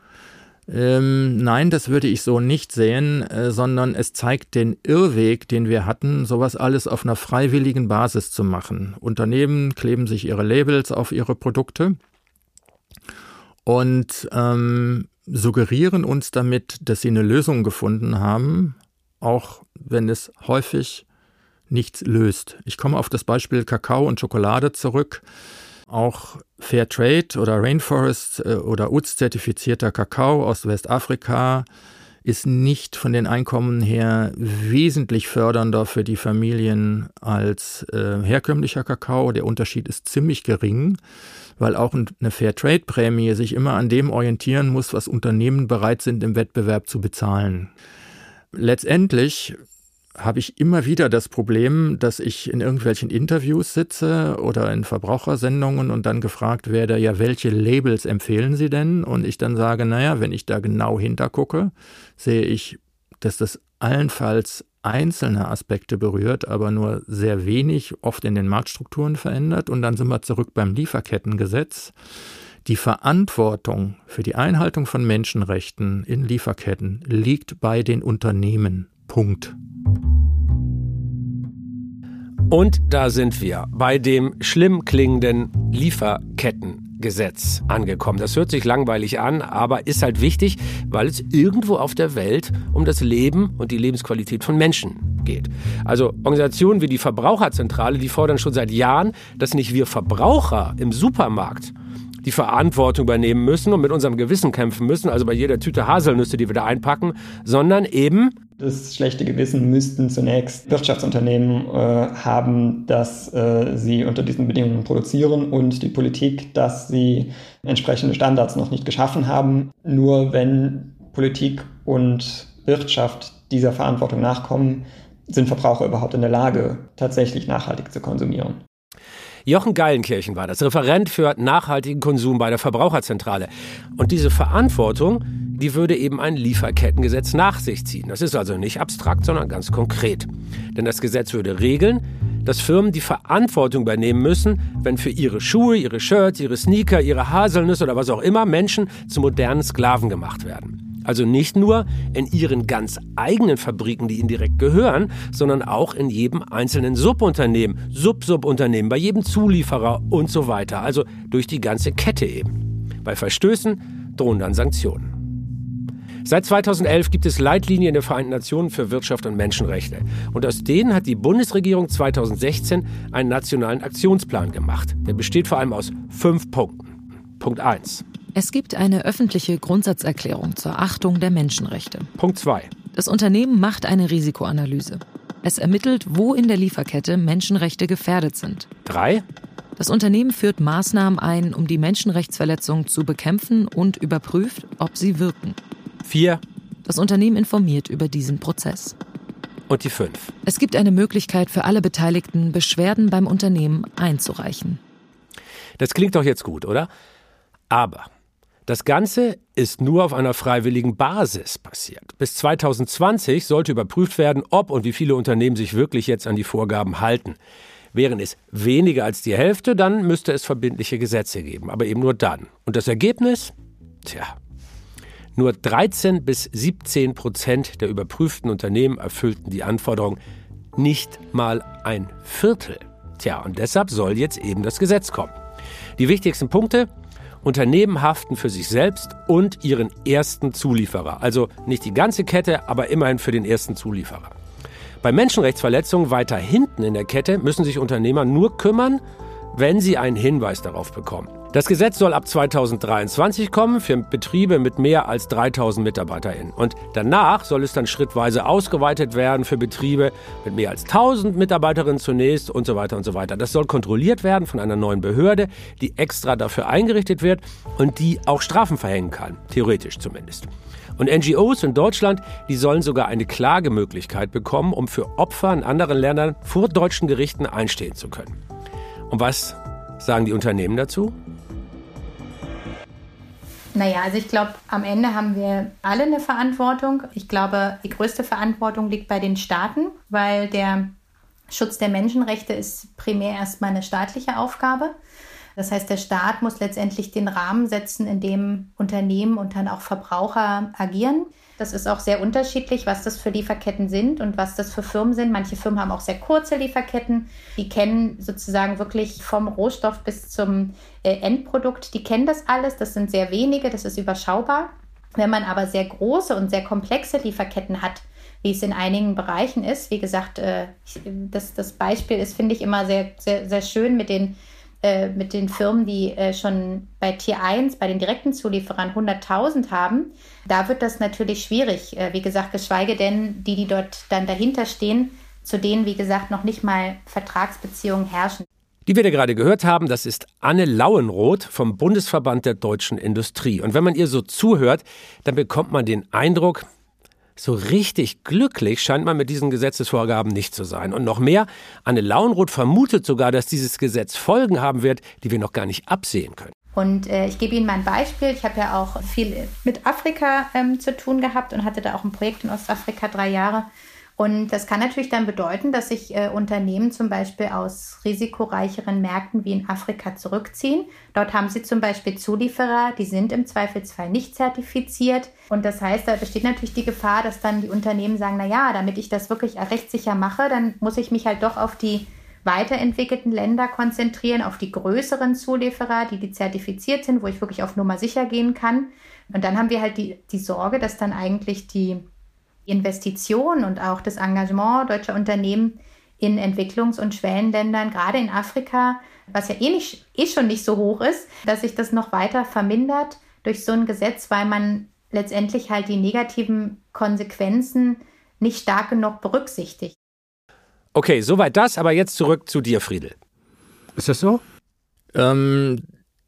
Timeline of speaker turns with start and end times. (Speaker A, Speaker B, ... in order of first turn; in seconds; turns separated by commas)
Speaker A: 0.7-12.0, Speaker A: 13.7-21.0, Speaker A: 21.7-25.2, Speaker A: 25.9-31.6, Speaker A: 32.2-41.0, Speaker A: 41.6-47.7, Speaker A: 48.5-49.6, Speaker A: 50.2-71.9, Speaker A: 72.6-79.5, Speaker B: 82.5-108.3, Speaker C: 108.6-128.6, Speaker B: 129.4-165.1, Speaker B: 166.2-178.0, Speaker D: 178.3-182.1, Speaker B: 182.2-182.7, Speaker D: 182.9-188.7, Speaker B: 188.8-189.2, Speaker D: 189.8-195.6, Speaker B: 196.0-196.4, Speaker D: 196.8-198.9, Speaker B: 199.7-200.3, Speaker D: 200.4-204.8, Speaker B: 205.8-206.9, Speaker B: 207.7-208.1, Speaker B: 208.7-217.4, Speaker B: 217.9-224.4, Speaker B: 225.3-230.2, Speaker B: 230.7-235.3, Speaker B: 236.0-236.9, Speaker B: 237.4-244.3, Speaker B: 245.0-249.0, Speaker B: 249.5-278.4, Speaker B: 279.1-281.2, Speaker E: 283.7-290.9, Speaker E: 291.5-294.9, Speaker E: 295.6-338.4, Speaker B: 338.9-346.7, Speaker B: 347.4-356.5, Speaker E: 356.7-392.1, Speaker E: 392.7-409.9, Speaker B: 410.9-413.1, Speaker B: 413.9-414.4, Speaker A: 415.1-415.8